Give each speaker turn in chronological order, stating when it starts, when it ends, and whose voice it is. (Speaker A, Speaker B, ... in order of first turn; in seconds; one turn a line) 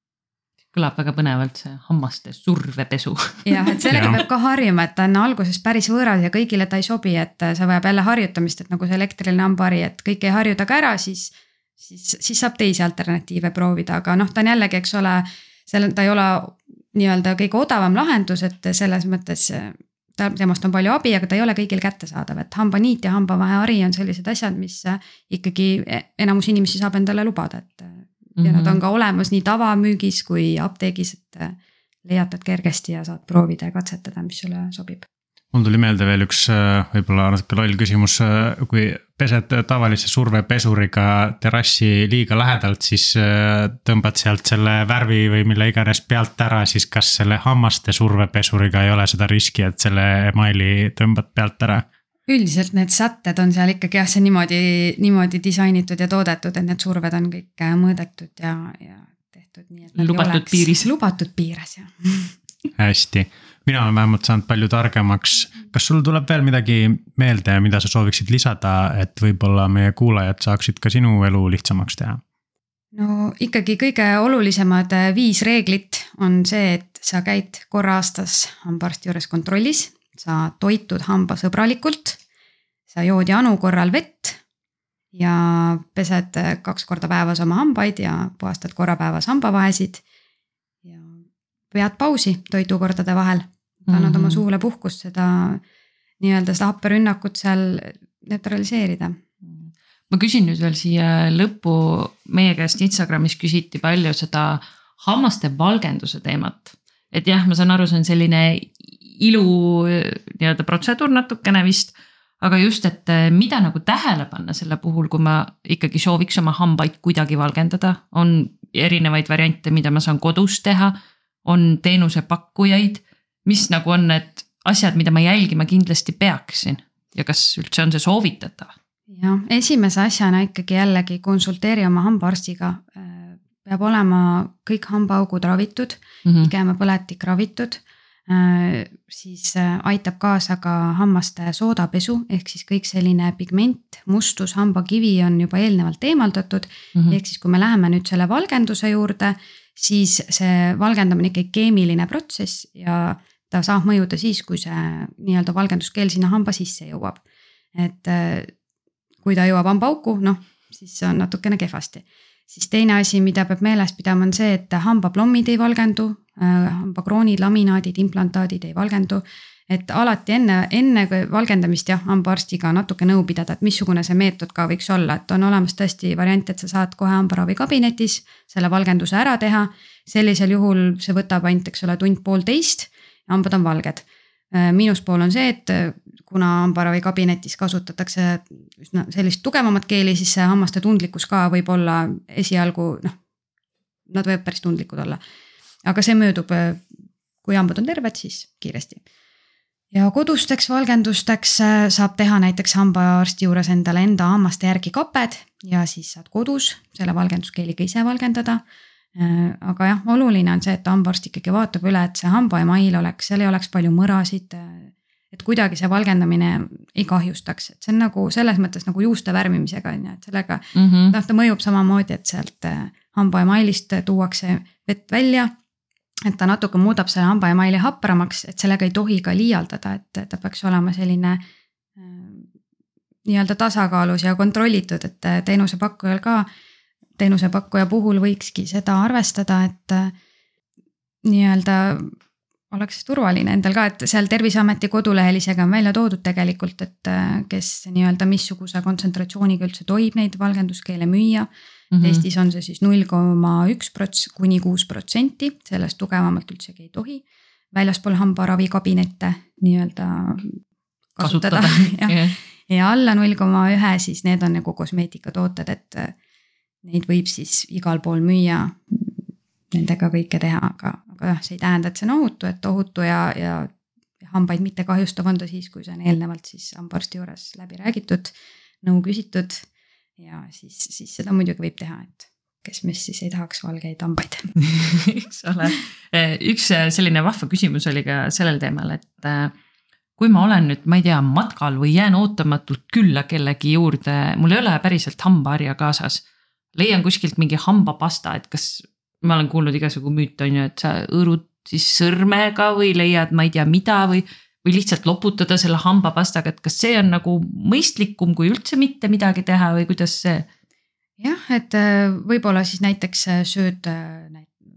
Speaker A: 0.7-4.2
Speaker B: 3.4-35.1
Speaker C: 3.9-4.2
Speaker A: 28.4-28.8
Speaker C: 35.5-51.9
Speaker B: 52.3-62.3
Speaker A: 60.0-60.9
Speaker C: 62.8-72.2
Speaker B: 72.9-82.2
Speaker B: 82.9-84.4
Speaker B: 85.1-90.0
Speaker B: 90.8-91.2
Speaker B: 91.7-95.6
Speaker A: 93.8-94.4
Speaker B: 96.2-99.2
Speaker A: 99.4-128.7
Speaker B: 129.1-157.2
Speaker A: 136.3-136.5
Speaker B: 157.8-158.5
Speaker B: 159.2-193.1
Speaker B: 194.1-195.2
Speaker B: 195.8-196.9
Speaker B: 197.4-199.0
Speaker B: 199.9-208.6
Speaker B: 209.2-225.5
Speaker A: 220.8-221.2
Speaker B: 226.3-231.4
Speaker B: 232.0-232.5
Speaker B: 233.3-236.5
Speaker B: 237.2-240.1
Speaker B: 241.2-242.1
Speaker B: 242.7-251.5
Speaker A: 251.9-252.2
Speaker B: 252.0-260.6
Speaker B: 261.1-262.2
Speaker A: 261.2-262.4
Speaker B: 262.7-266.1
Speaker B: 266.8-269.1
Speaker B: 269.7-279.6
Speaker B: 280.2-284.5
Speaker A: 284.6-289.5
Speaker A: 290.2-296.2
Speaker A: 296.7-310.5
Speaker B: 311.2-314.6